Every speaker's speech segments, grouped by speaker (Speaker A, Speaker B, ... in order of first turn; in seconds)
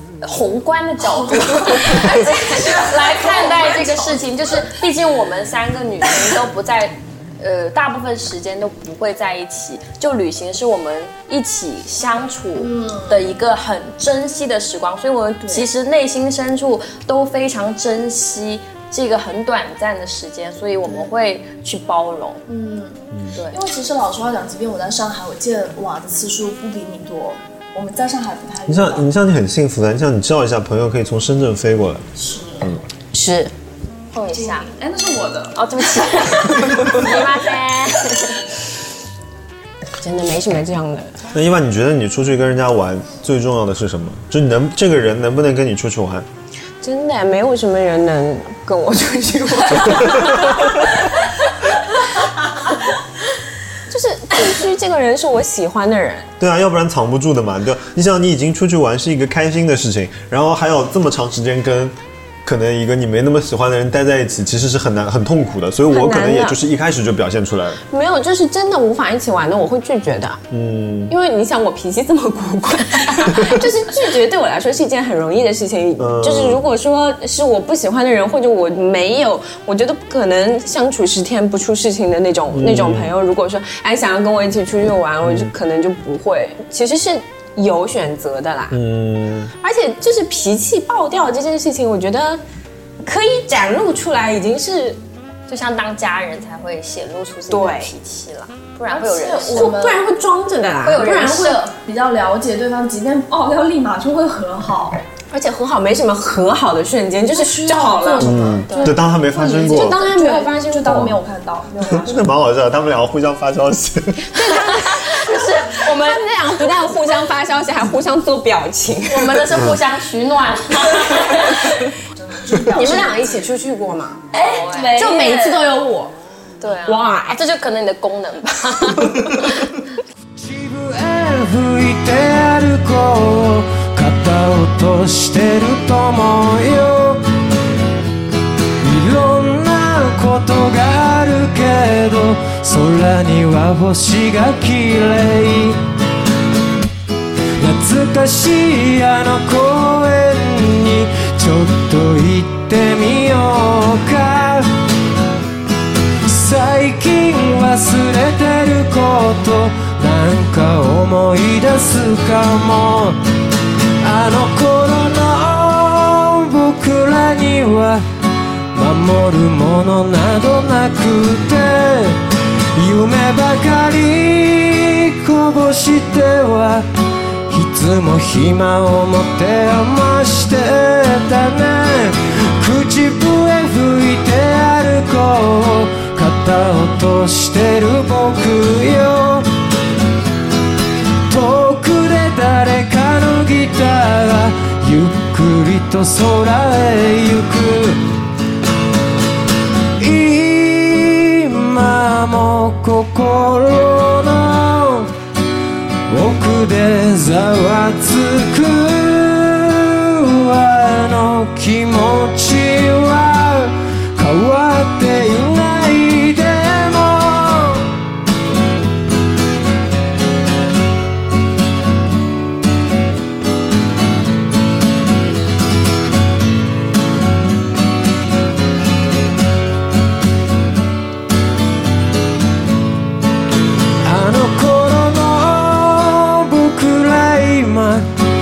Speaker A: 0.2-22.4, 23.3-23.6, 34.1-34.7, 35.5-38.5, 95.5-99.8, 100.8-101.6, 109.7-111.0, 114.4-116.2, 119.1-121.8, 124.4-125.6, 126.6-129.8
Speaker B: 1.0-4.2, 12.6-13.2, 22.5-29.1, 32.1-32.7, 34.2-35.7, 98.9-100.1, 101.0-105.0, 107.3-112.3, 122.1-123.2, 124.3-126.1
Speaker C: 28.7-32.0, 41.3-46.3, 49.9-50.2, 56.4-67.8, 70.5-71.1, 76.0-76.6, 82.5-83.1, 85.2-85.5, 88.7-89.5, 108.2-110.0, 110.8-111.1, 111.9-114.3
Speaker D: 33.1-33.5, 40.0-41.1, 46.8-51.2, 53.9-56.3, 65.9-66.6, 67.9-70.4, 71.1-88.8, 89.6-92.4, 93.0-95.0, 97.5-97.9, 99.5-101.5, 105.3-108.5, 109.7-110.7, 114.3-119.7, 122.6-124.2, 125.0-125.6, 126.8-127.4
Speaker E: 130.3-137.2, 138.8-145.8, 147.6-154.7, 156.2-163.2, 164.0-168.0, 168.7-172.2, 172.7-176.9, 177.5-189.5, 191.2-198.2, 200.0-205.1, 206.1-218.0, 234.0-238.1